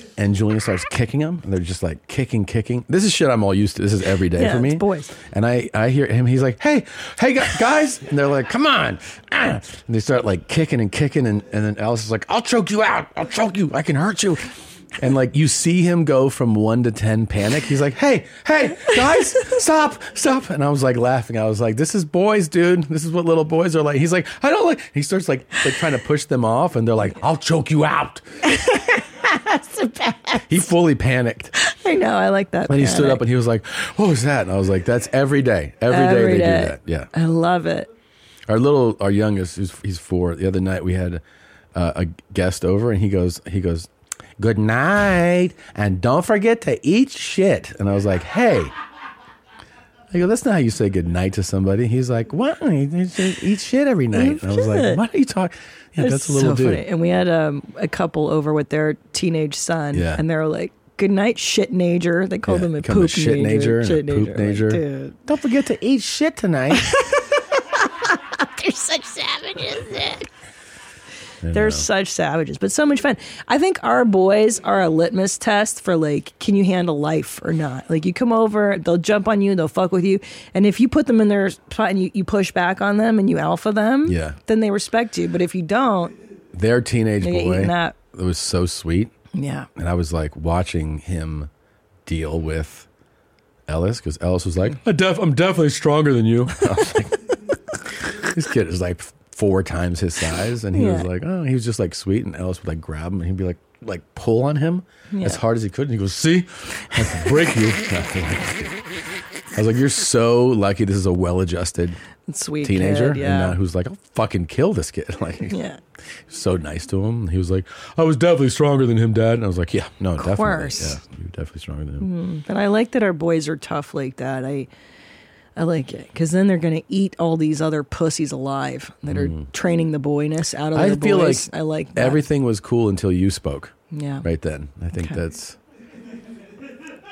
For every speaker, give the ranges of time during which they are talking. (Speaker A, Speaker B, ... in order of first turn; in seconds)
Speaker A: 0.2-28.2, 30.5-31.5, 32.7-37.1, 38.5-41.2, 41.7-48.7, 50.1-56.8, 59.9-60.2, 62.5-67.0, 71.4-71.8, 84.0-84.4, 86.5-89.1, 89.8-91.5, 92.0-92.9, 93.7-97.2, 97.7-108.8, 109.5-112.0, 112.6-115.5, 116.3-122.1, 129.1-129.5, 130.7-135.6
Speaker B: 4.3-5.1, 28.5-30.5, 31.5-33.2, 35.9-37.9, 54.1-55.0, 56.0-65.2, 68.5-70.2, 71.5-86.2, 87.2-88.0, 89.3-89.7, 100.7-101.1, 105.1-105.4, 112.3-113.6, 115.5-115.8, 120.2-121.0, 122.0-124.7, 125.5-132.2, 133.9-134.2